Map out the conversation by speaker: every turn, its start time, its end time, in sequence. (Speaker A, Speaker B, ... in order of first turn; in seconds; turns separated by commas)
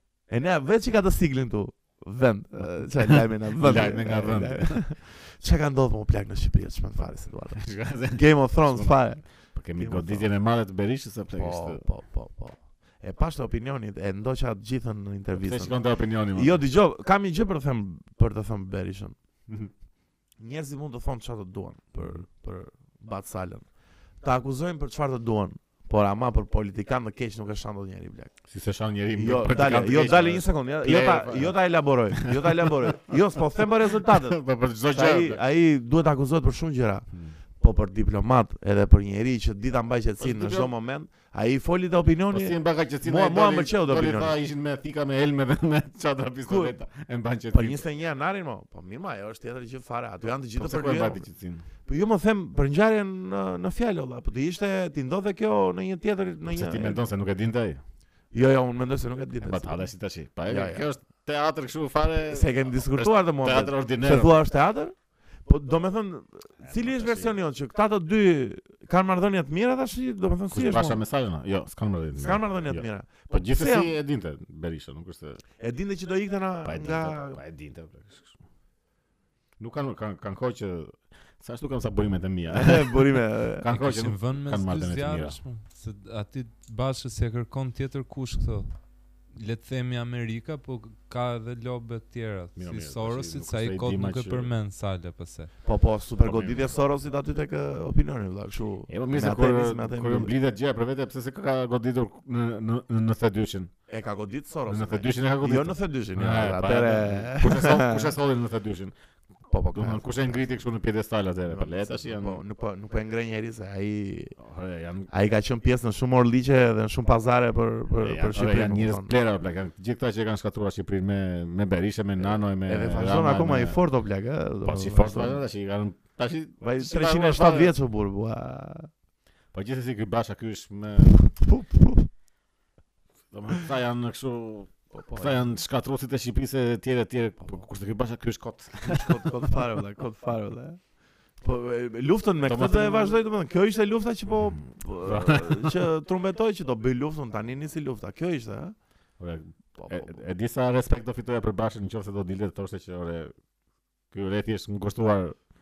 Speaker A: 0.3-10.3, Speaker B: 3.5-4.8, Speaker B: 7.5-11.8, Speaker A: 11.3-15.8, Speaker B: 15.3-16.6, Speaker A: 16.3-19.1, Speaker A: 20.4-23.6, Speaker B: 22.0-22.2, Speaker A: 24.2-28.3, Speaker B: 28.5-31.6, Speaker A: 29.1-34.4, Speaker B: 32.1-33.1, Speaker B: 33.8-35.4, Speaker A: 34.9-37.1, Speaker A: 37.6-44.4, Speaker B: 40.2-40.7, Speaker B: 42.3-47.8, Speaker A: 46.5-46.8, Speaker A: 47.5-51.3, Speaker B: 50.5-51.6, Speaker A: 51.8-57.0, Speaker B: 56.5-57.8, Speaker A: 58.3-59.9, Speaker B: 59.4-64.3, Speaker A: 60.5-60.9, Speaker A: 62.3-71.0, Speaker B: 66.6-67.3, Speaker B: 70.5-75.4, Speaker A: 72.2-73.9, Speaker A: 75.6-77.4, Speaker B: 76.6-78.3, Speaker B: 79.6-85.4, Speaker A: 82.5-83.7, Speaker C: 83.7-95.5, Speaker B: 92.5-94.5, Speaker A: 95.6-100.3, Speaker B: 96.2-96.7, Speaker B: 98.9-103.7, Speaker A: 103.9-108.1, Speaker B: 104.7-108.9, Speaker A: 109.5-110.4, Speaker B: 109.7-112.4, Speaker A: 111.5-114.3, Speaker B: 114.4-115.1, Speaker A: 115.1-119.1, Speaker B: 118.0-123.8, Speaker A: 122.2-125.4, Speaker B: 124.6-127.7, Speaker A: 126.6-128.9, Speaker B: 129.5-131.2, Speaker A: 131.2-132.1, Speaker B: 133.3-139.3, Speaker A: 134.9-135.4, Speaker A: 138.8-140.8, Speaker A: 141.4-148.8, Speaker B: 142.4-143.2, Speaker B: 144.4-145.7, Speaker B: 149.2-153.3, Speaker A: 149.8-150.2, Speaker B: 154.1-155.4